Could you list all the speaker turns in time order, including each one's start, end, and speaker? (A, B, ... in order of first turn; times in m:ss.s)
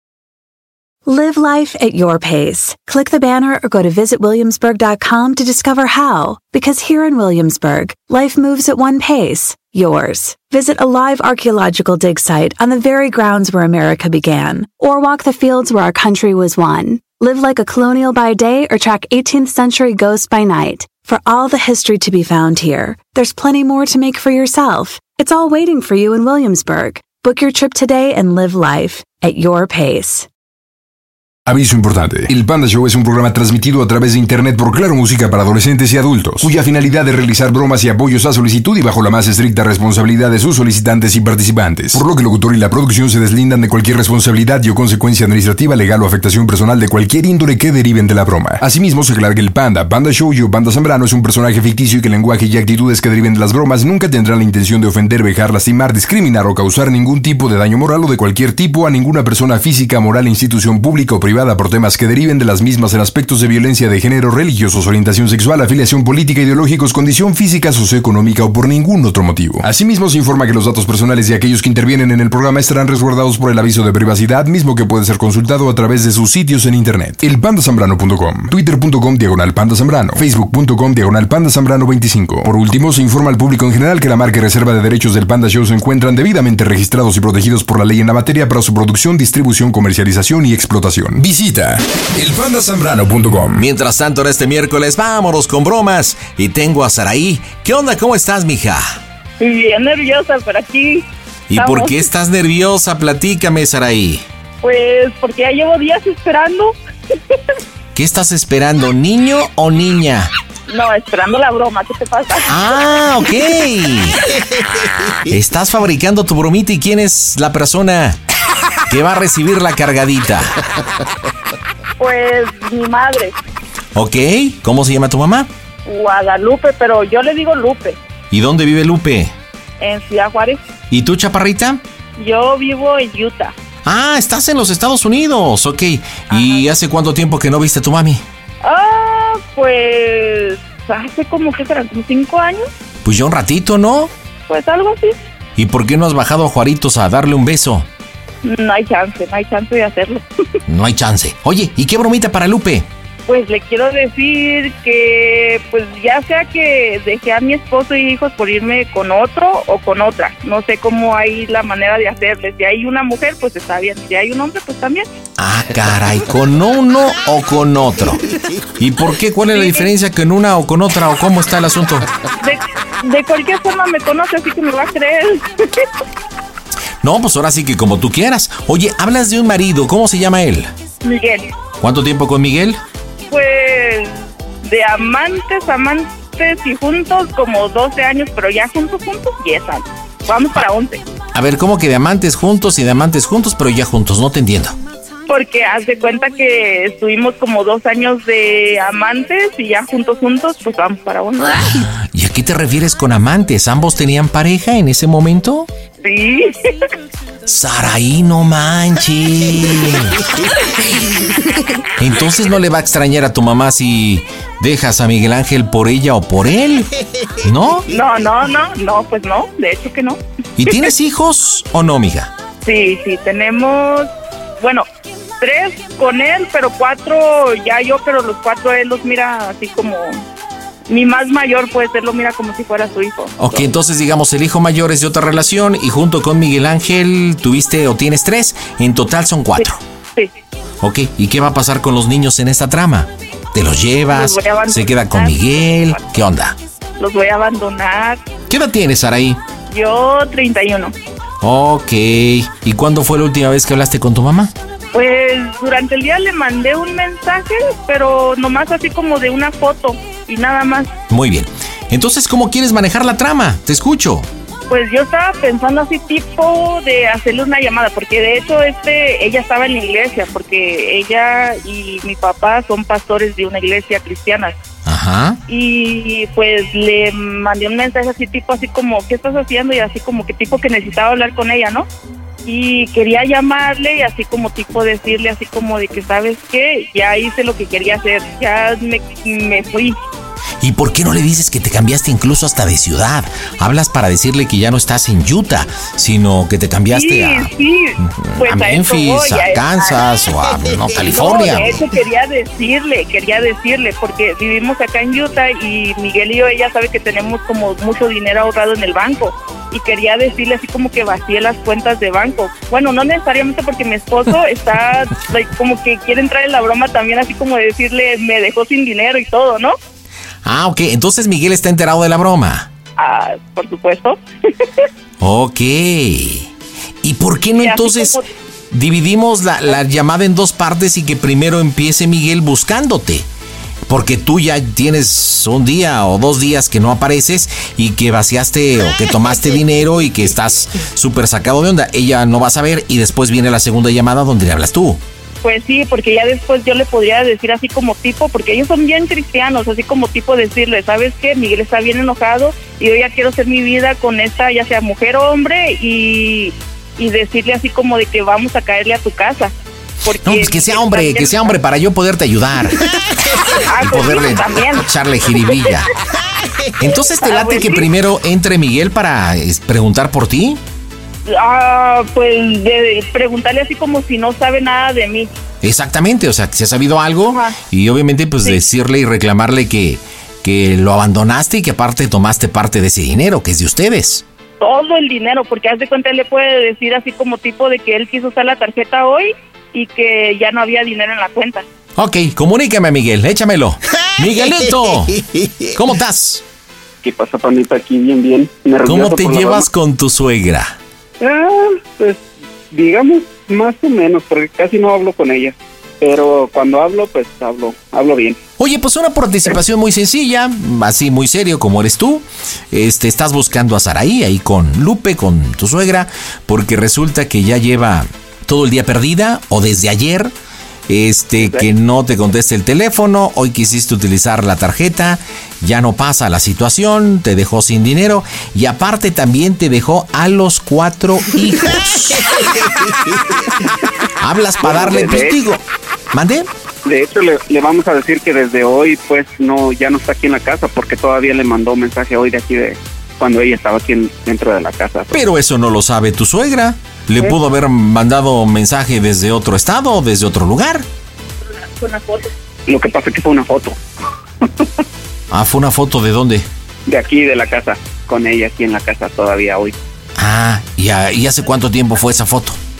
0:01.1-0:30.3 A
0:31.5-1:33.6 B
1:33.6-1:39.0 C
1:39.4-1:42.0 D
1:41.5-1:44.2 C
1:44.6-1:46.7 D
1:48.0-1:50.3 C
1:50.7-1:52.6 D
1:52.5-1:54.2 C
1:55.3-1:58.2 C
1:58.9-2:00.5 C
2:02.0-2:03.4 D
2:04.0-2:05.5 C
2:05.9-2:08.0 D
2:08.3-2:09.3 C
2:09.8-2:10.6 D
2:10.9-2:11.8 C
2:12.2-2:13.5 D
2:13.8-2:18.2 C
2:16.3-2:16.6 D
2:18.6-2:22.7 D
2:23.0-2:24.1 C
2:24.5-2:25.2 D
2:25.6-2:27.9 C
2:28.4-2:30.2 D
2:30.7-2:32.9 C
2:33.3-2:45.1 D
2:45.4-2:48.2 C
2:48.8-2:52.1 C
2:49.5-2:49.9 D
2:52.4-2:55.5 D
2:57.0-3:00.7 C
3:01.0-3:01.5 D
3:01.8-3:02.8 C
3:03.3-3:11.0 D
3:11.3-3:14.8 C
3:15.3-3:21.5 D
3:21.6-3:25.7 C
3:26.0-3:26.6 D
3:27.5-3:30.2 C
3:32.0-3:36.9 C
3:37.4-3:37.9 C
3:37.9-3:40.8 D
3:40.6-3:42.3 C
3:42.6-3:44.9 D
3:45.4-3:50.2 D
3:50.9-3:53.7 D
3:53.4-3:59.8 C
3:59.6-4:00.3 D
4:00.8-4:06.6 C
4:04.1-4:06.0 D
4:07.0-4:08.2 D
4:08.5-4:09.4 C
4:09.7-4:10.9 D
4:11.4-4:14.5 C
4:14.9-4:20.9 D
4:21.1-4:24.3 C
4:24.7-4:34.6 D
4:34.8-4:35.4 C
4:35.5-4:41.9 D
4:42.5-4:50.0 D
4:50.6-4:57.5 C
4:56.9-5:00.0 D
4:58.0-5:01.7 C
5:01.1-5:19.8 D
5:20.4-5:22.7 C
5:23.0-5:24.2 D
5:25.2-5:26.5 C
5:27.0-5:28.2 C
5:27.6-5:28.3 D
5:28.7-5:33.3 C
5:33.9-5:45.0 C
5:45.4-5:59.5 D
6:00.0-6:01.5 D
6:00.2-6:02.8 C
6:03.6-6:04.8 D
6:03.8-6:05.9 C
6:06.8-6:10.6 C
6:07.2-6:07.9 D
6:11.3-6:15.3 D
6:15.6-6:24.2 C
6:17.3-6:17.6 D
6:24.6-6:31.6 D
6:32.0-6:36.4 C
6:37.0-6:39.7 E
6:38.8-6:40.8 C
6:41.2-6:48.4 E
6:48.6-7:00.3 C
7:00.9-7:12.3 C
7:14.2-7:16.5 C
7:14.6-7:15.4 E
7:16.9-7:25.2 E
7:25.1-7:30.8 C
7:31.4-7:32.3 D
7:32.7-7:33.8 E
7:35.3-7:36.5 C
7:36.9-7:39.8 E
7:40.2-7:42.6 C